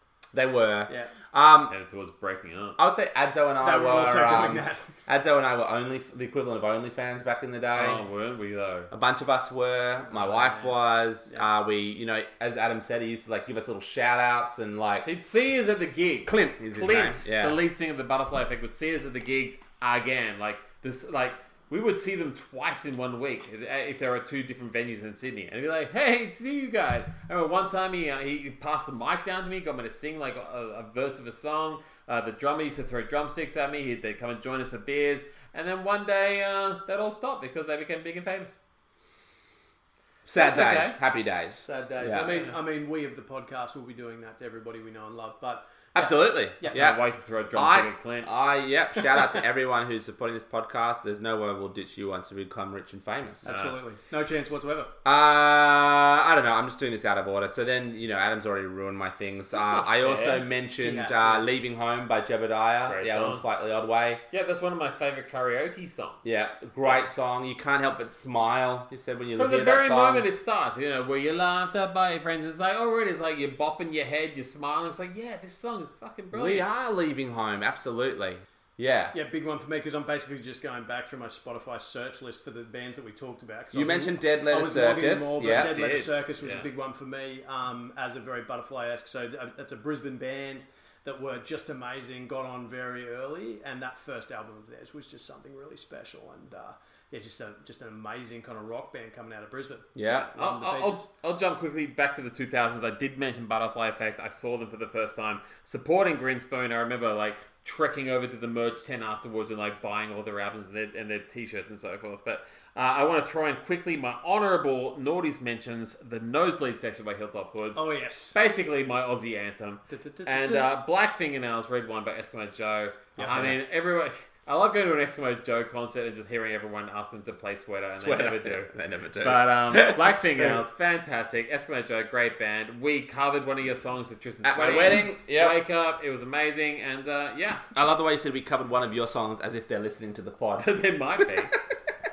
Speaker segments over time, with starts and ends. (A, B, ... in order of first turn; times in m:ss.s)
0:00.3-0:01.7 A
0:01.7-0:02.8 B
0:02.8-0:08.0 A
0:03.6-0:04.9 C
0:07.7-0:08.9 B
0:08.9-0:15.1 A
0:10.2-0:10.8 C
0:15.0-0:38.6 B
0:16.3-0:17.6 A
0:40.3-0:42.4 A
0:40.4-0:41.0 B
0:41.6-0:46.9 C
0:46.0-0:47.0 A
0:46.7-0:48.3 B
0:47.5-0:53.5 A
0:53.4-0:53.8 B
0:53.4-0:54.9 C
0:55.0-1:04.2 A
0:59.5-1:00.4 B
1:00.8-1:01.5 C
1:02.9-1:03.4 B
1:04.3-1:06.2 B
1:06.2-1:10.3 A
1:09.4-1:16.7 B
1:16.3-1:19.2 A
1:19.1-1:41.1 C
1:23.7-1:25.7 A
1:25.5-1:26.7 B
1:40.0-1:40.3 A
1:40.3-2:17.7 B
1:57.8-1:58.4 C
1:59.9-2:00.7 C
2:03.2-2:03.6 A
2:07.9-2:10.6 A
2:14.4-2:15.6 A
2:17.8-2:20.7 A
2:20.6-2:21.5 B